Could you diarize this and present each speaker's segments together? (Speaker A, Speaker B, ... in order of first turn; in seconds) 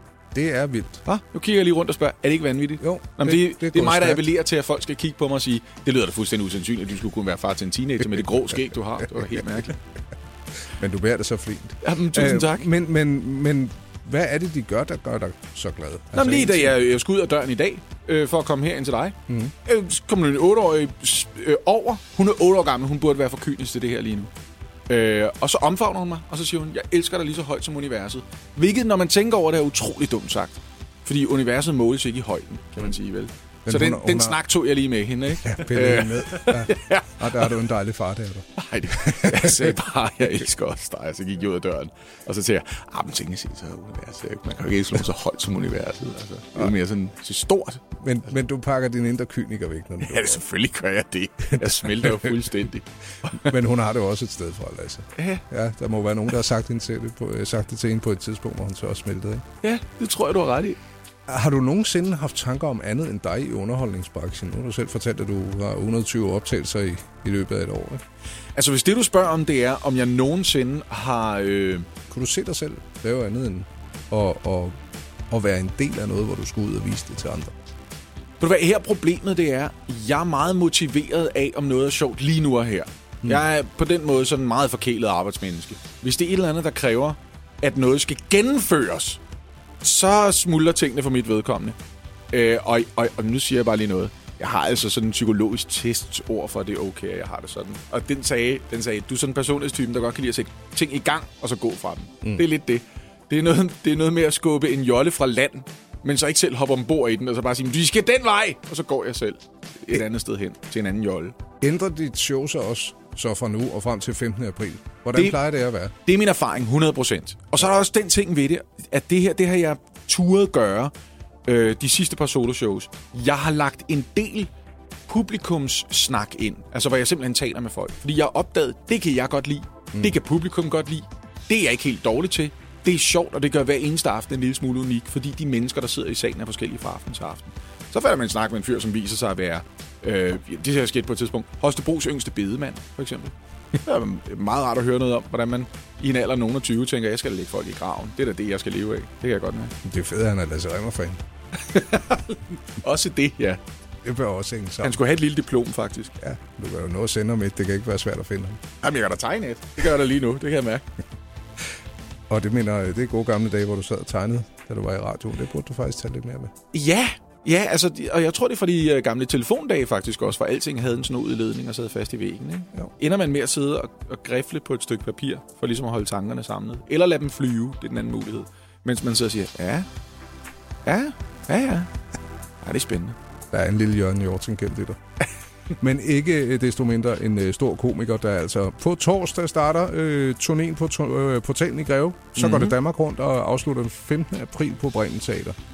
Speaker A: 0.3-1.0, 2.8-4.2, 10.8-16.8, 33.7-34.4, 35.5-39.8, 48.0-50.4, 51.5-52.2, 53.4-59.4, 61.3-68.0, 72.1-74.7, 75.3-77.5, 111.6-115.9, 149.8-151.2, 154.1-155.0, 156.2-158.6, 162.3-166.5, 183.5-185.0, 185.8-195.6
Speaker B: 1.1-9.8, 11.8-12.7, 16.1-24.3, 24.9-37.6, 38.5-48.0, 50.0-53.5, 55.2-55.4, 59.6-60.8, 68.6-71.9, 78.4-89.2, 89.8-91.8, 92.3-111.4, 115.1-115.4, 116.0-120.9, 121.5-124.5, 125.1-149.8, 151.5-153.6, 154.8-156.2, 158.8-160.8, 166.7-179.9, 180.8-181.9, 182.6-183.2, 192.3-192.8